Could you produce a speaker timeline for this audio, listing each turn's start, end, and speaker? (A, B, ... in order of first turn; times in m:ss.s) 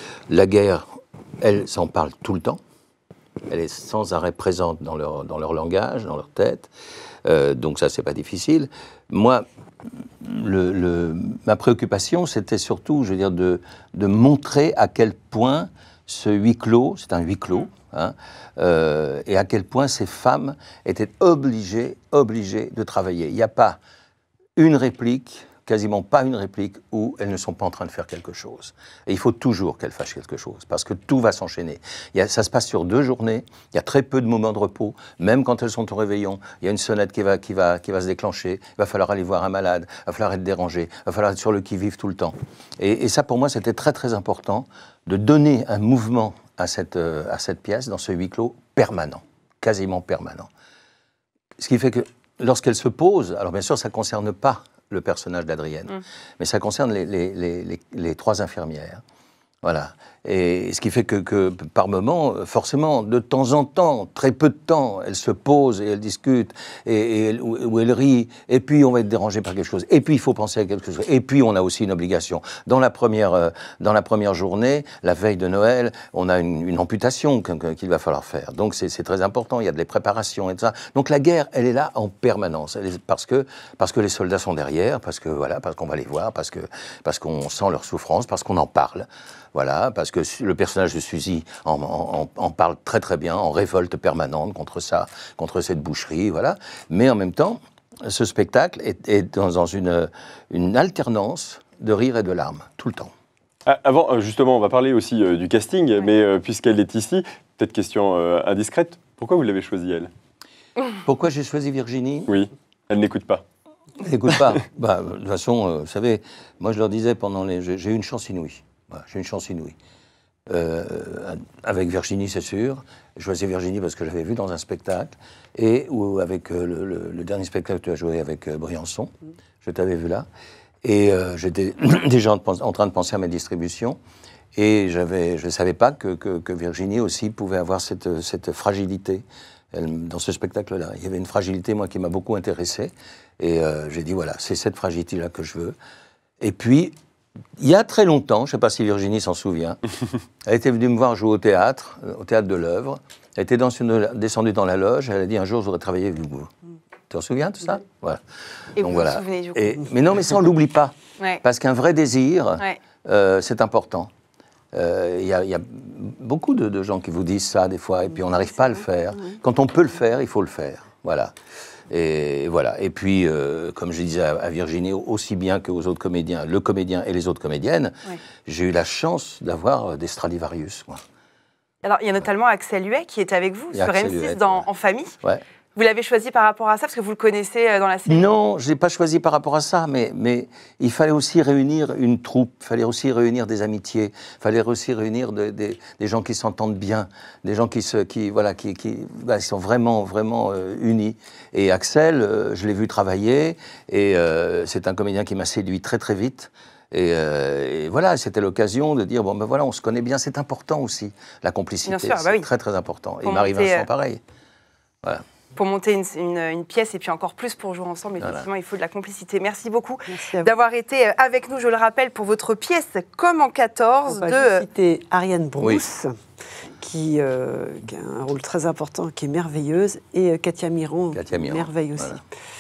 0:00.3-0:00.9 A
0:01.4-0:02.6 A
0:03.5-0:06.7 A
0:07.2-0:09.4 A
0:10.2-0:23.8 A
0:24.6-0:50.5 A
0:51.6-0:59.0 A
0:59.6-1:43.1 A
1:43.6-1:50.1 B
1:50.9-1:52.3 A
1:52.3-1:53.4 B
1:54.0-1:59.8 A
2:00.5-2:09.1 A
2:09.6-2:10.2 A
2:10.8-2:14.0 A
2:14.5-2:25.8 A
2:26.4-2:26.9 A
2:27.6-2:29.8 A
2:30.4-2:36.5 A
2:37.1-2:38.2 A
2:38.8-2:39.8 C
2:38.8-2:44.1 A
2:44.7-2:51.3 A
2:51.9-3:01.0 A
3:01.8-3:05.1 C
3:03.7-3:04.7 A
3:05.7-3:08.3 C
3:08.1-3:34.2 A
3:31.8-3:32.4 C
3:33.2-3:33.9 C
3:35.5-3:44.6 C
3:38.2-3:38.5 A
3:40.1-3:40.5 D
3:44.1-3:46.1 D
3:45.6-3:45.8 A
3:46.8-3:52.2 D
3:51.1-3:52.2 A